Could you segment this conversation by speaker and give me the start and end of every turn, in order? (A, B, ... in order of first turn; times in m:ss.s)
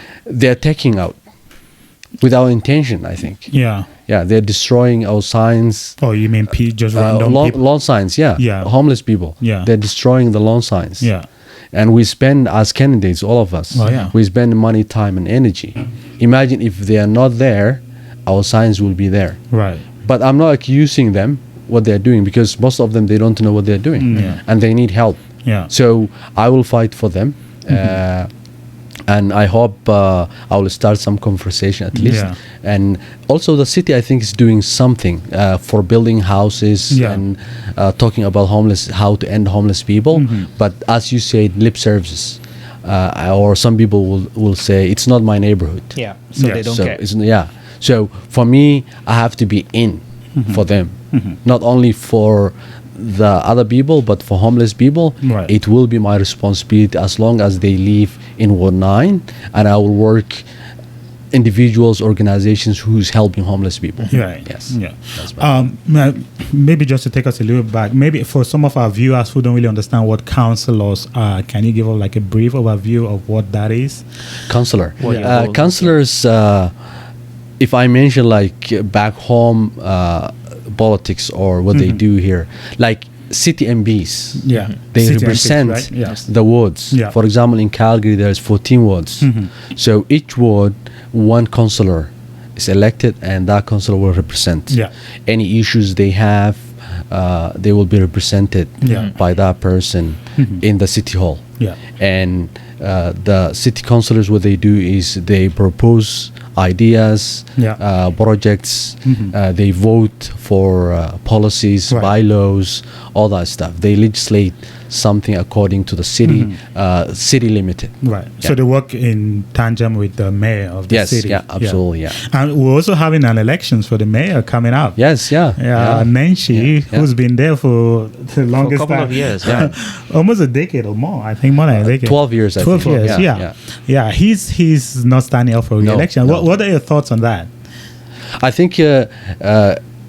0:00.3-0:01.2 A
0:02.2-0:03.5 A
0:03.5-0:03.9 B
0:04.1-0:06.0 A
0:06.0-0:07.6 B
0:06.9-0:11.1 A
0:08.4-0:08.7 B
0:09.4-0:09.7 B
0:11.0-0:11.3 B
0:11.7-0:19.4 A
0:13.7-0:14.1 B
0:19.5-0:19.8 B
0:20.0-0:28.3 A
0:24.0-0:24.4 B
0:25.4-0:25.7 B
0:29.1-0:46.0 A
0:31.9-0:32.4 B
0:36.9-0:37.2 B
0:40.1-0:40.5 B
0:46.0-0:47.0 C
0:46.4-0:46.7 B
0:46.6-1:00.5 A
0:50.4-0:51.4 B
0:55.2-0:55.5 B
1:01.3-1:05.4 A
1:04.1-1:14.0 B
1:14.5-1:16.7 A
1:15.0-1:15.9 C
1:15.0-1:15.3 B
1:17.6-1:41.4 A
1:21.7-1:22.0 B
1:24.4-1:26.2 B
1:29.2-1:29.5 B
1:38.8-1:39.1 B
1:40.4-1:40.6 B
1:42.0-1:58.6 A
1:49.0-1:49.3 B
1:56.2-1:56.5 B
1:58.0-2:05.0 B
2:00.9-2:02.2 A
2:05.0-2:07.1 A
2:05.6-2:17.5 B
2:08.6-2:09.7 C
2:11.8-2:13.5 A
2:15.8-2:16.4 A
2:18.4-2:19.8 A